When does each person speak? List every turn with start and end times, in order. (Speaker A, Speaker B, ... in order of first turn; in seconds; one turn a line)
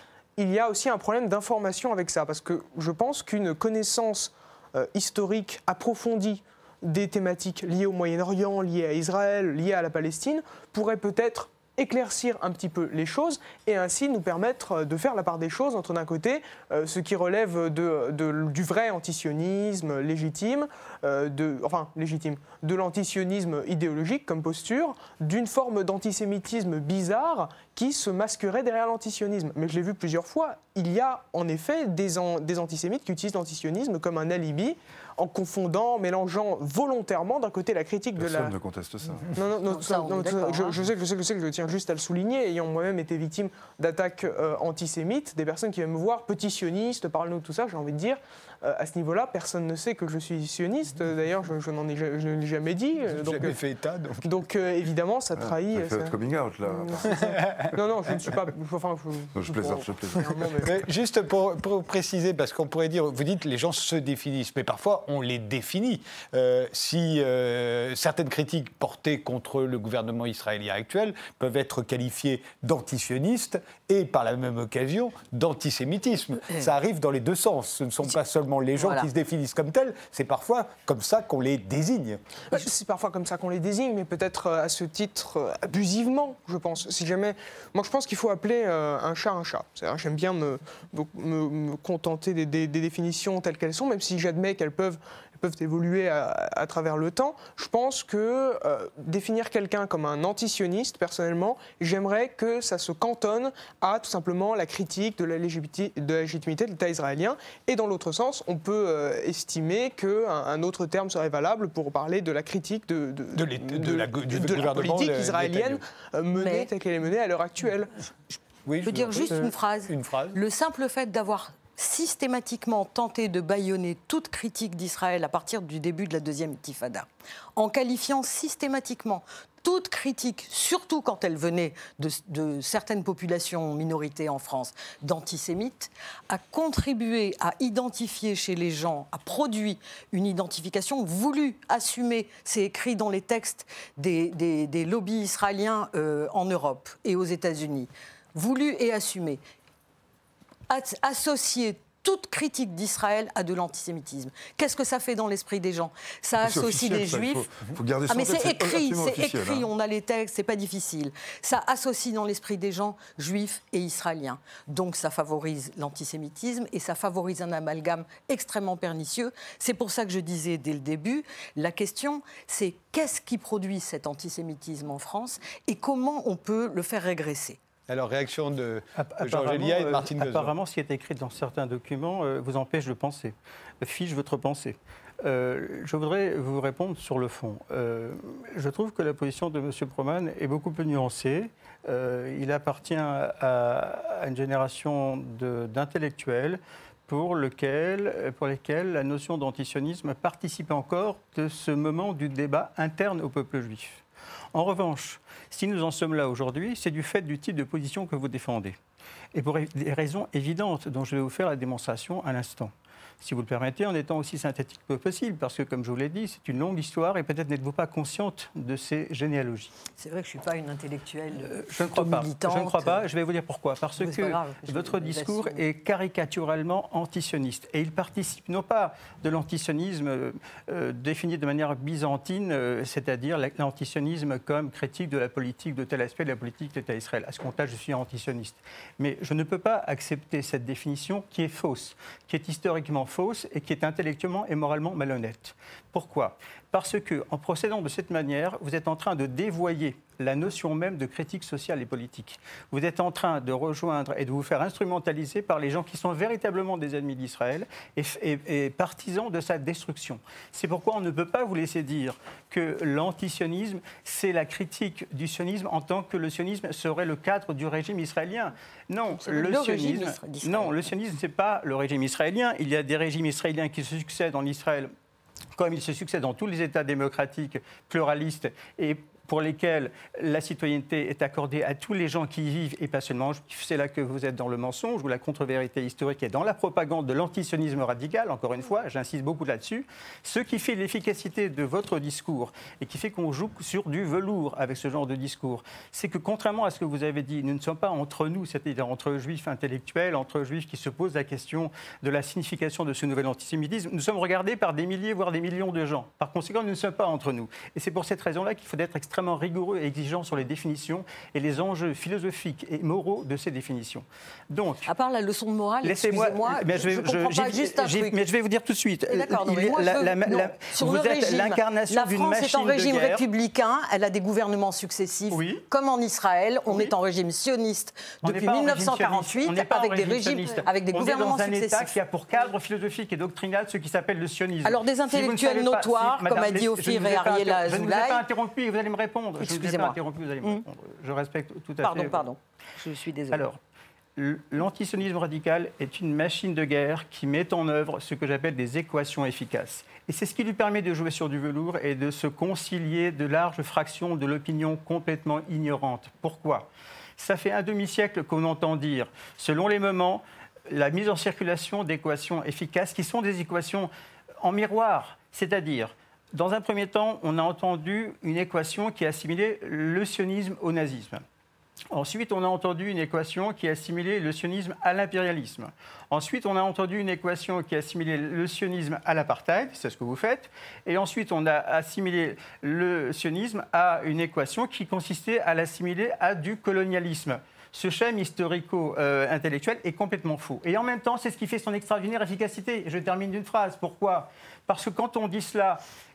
Speaker A: 0.4-38.5
Speaker B: 38.2-39.3
Speaker A: 39.3-53.6
Speaker C: 39.7-40.8
Speaker D: 53.0-54.2
Speaker A: 54.2-56.1
Speaker B: 55.4-57.3
Speaker A: 56.7-60.8
Speaker D: 57.1-57.7
Speaker B: 59.4-60.3
Speaker D: 60.6-82.2
Speaker C: 76.4-76.7
Speaker C: 78.8-79.1
Speaker A: 82.5-118.1
Speaker D: 113.3-115.8
Speaker C: 116.3-116.7
Speaker D: 118.7-120.4
Speaker C: 118.8-149.4
Speaker C: 150.7-177.6
Speaker B: 156.4-159.7
Speaker D: 177.9-180.5
Speaker E: 179.0-204.0
Speaker E: 204.5-208.8
Speaker E: 209.3-219.7
Speaker C: 220.0-223.0
Speaker E: 221.4-274.9
Speaker C: 224.0-225.6
Speaker C: 269.2-270.9
Speaker E: 275.6-314.9
Speaker C: 314.9-318.2
Speaker E: 315.8-323.2
Speaker C: 319.1-332.0
Speaker E: 325.3-325.6
Speaker E: 326.7-326.9
Speaker E: 328.2-342.2
Speaker C: 334.6-338.3
Speaker C: 339.4-340.6
Speaker C: 341.8-343.5
Speaker E: 343.3-343.6
Speaker E: 344.2-363.9
Speaker E: 364.4-371.2
Speaker E: 371.9-395.8